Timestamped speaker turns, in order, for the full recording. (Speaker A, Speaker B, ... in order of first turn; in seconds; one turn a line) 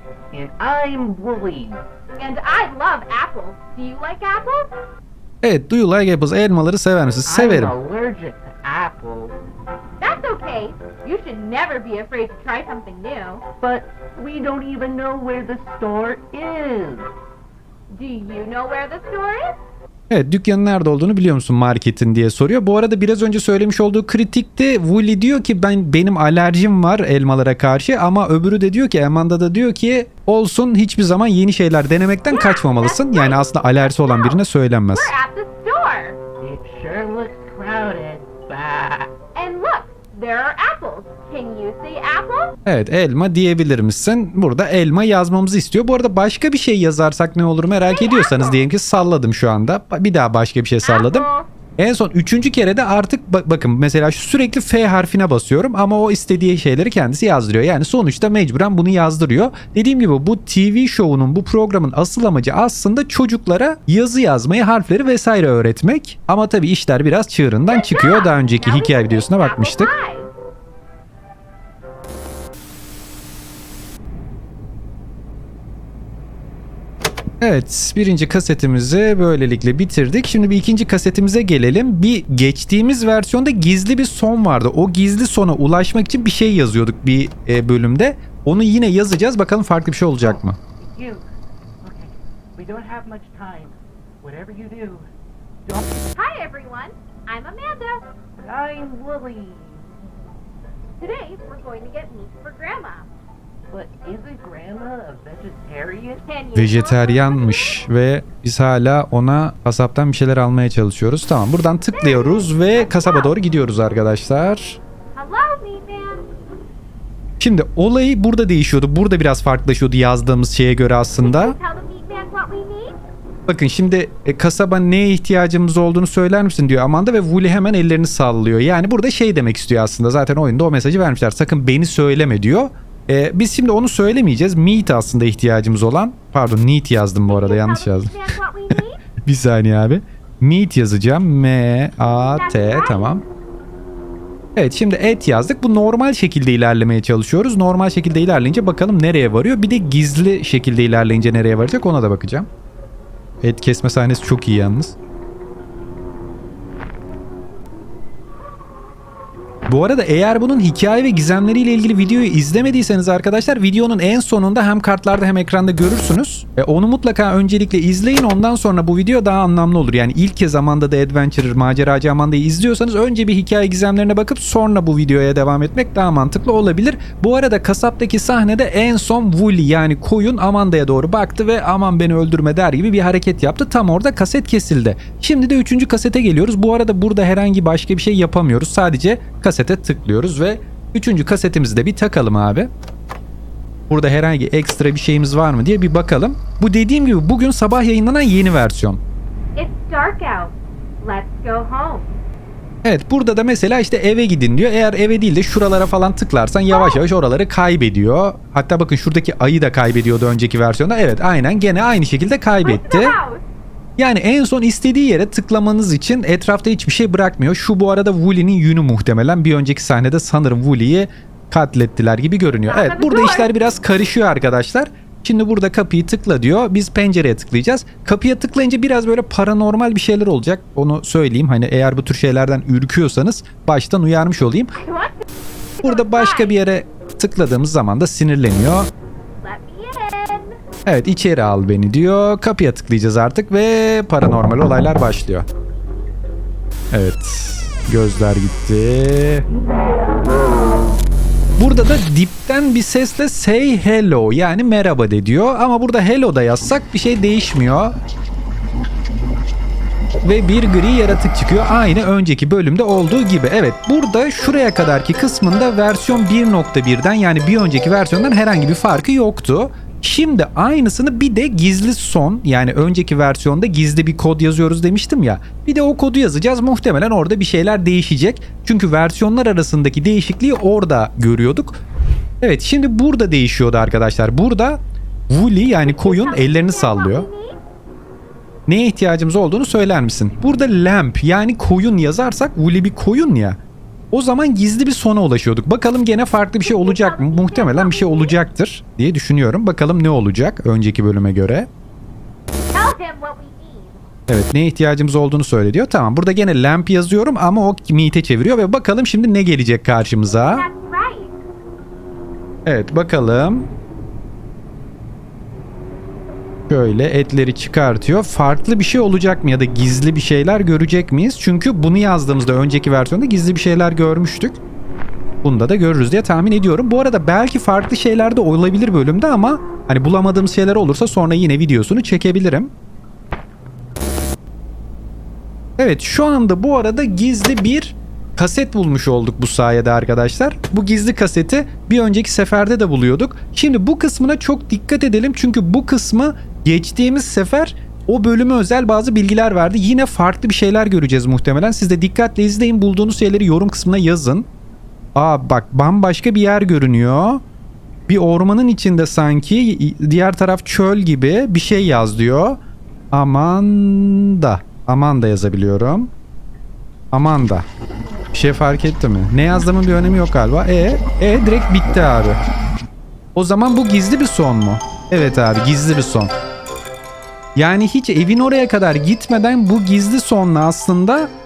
Speaker A: 0.3-1.8
Speaker B: 2.2-4.7
Speaker C: 5.4-7.7
Speaker A: 7.2-9.3
Speaker B: 10.0-13.4
Speaker A: 13.6-17.1
Speaker B: 17.9-19.6
Speaker C: 20.1-35.1
Speaker B: 32.3-36.2
Speaker A: 36.4-39.1
Speaker B: 39.3-42.5
Speaker C: 42.6-51.2
Speaker B: 47.8-48.6
Speaker B: 50.8-51.5
Speaker C: 51.8-69.9
Speaker B: 67.7-70.3
Speaker C: 77.4-90.6
Speaker A: 90.2-91.2
Speaker A: 91.8-95.1
Speaker A: 95.7-96.0
Speaker B: 96.1-98.1
Speaker A: 98.4-100.1
Speaker B: 101.0-103.1
Speaker A: 103.7-106.2
Speaker B: 106.2-107.9
Speaker C: 106.5-114.8
Speaker B: 111.9-113.3
Speaker B: 115.1-116.3
Speaker C: 117.4-121.5
Speaker B: 121.2-123.0
Speaker C: 123.5-138.2
Speaker B: 137.3-139.0
Speaker C: 138.7-143.2
Speaker B: 142.2-143.1
Speaker C: 144.6-152.5
Speaker C: 153.4-154.9
Speaker C: 159.7-192.7
Speaker C: 193.9-199.0
Speaker B: 199.6-202.1
Speaker C: 202.8-213.2
Speaker B: 206.7-207.0
Speaker B: 212.6-213.4
Speaker C: 214.0-234.8
Speaker B: 222.7-223.5
Speaker B: 234.8-235.2
Speaker B: 235.8-236.6
Speaker C: 235.8-238.9
Speaker B: 239.4-240.6
Speaker C: 240.8-245.4
Speaker C: 246.9-249.4
Speaker C: 251.6-257.9
Speaker C: 260.2-281.8
Speaker C: 282.4-287.3
Speaker B: 285.8-287.6
Speaker C: 288.7-293.6
Speaker C: 294.1-301.7
Speaker B: 296.6-298.4
Speaker B: 302.7-304.0
Speaker C: 304.3-310.7
Speaker B: 310.3-311.4
Speaker C: 312.6-313.7
Speaker C: 316.7-324.6
Speaker C: 325.4-332.7
Speaker C: 335.8-354.5
Speaker C: 355.1-357.4
Speaker C: 358.1-362.6
Speaker C: 363.1-366.1
Speaker C: 367.1-367.6
Speaker C: 368.3-372.4
Speaker C: 373.3-376.4
Speaker C: 377.6-381.3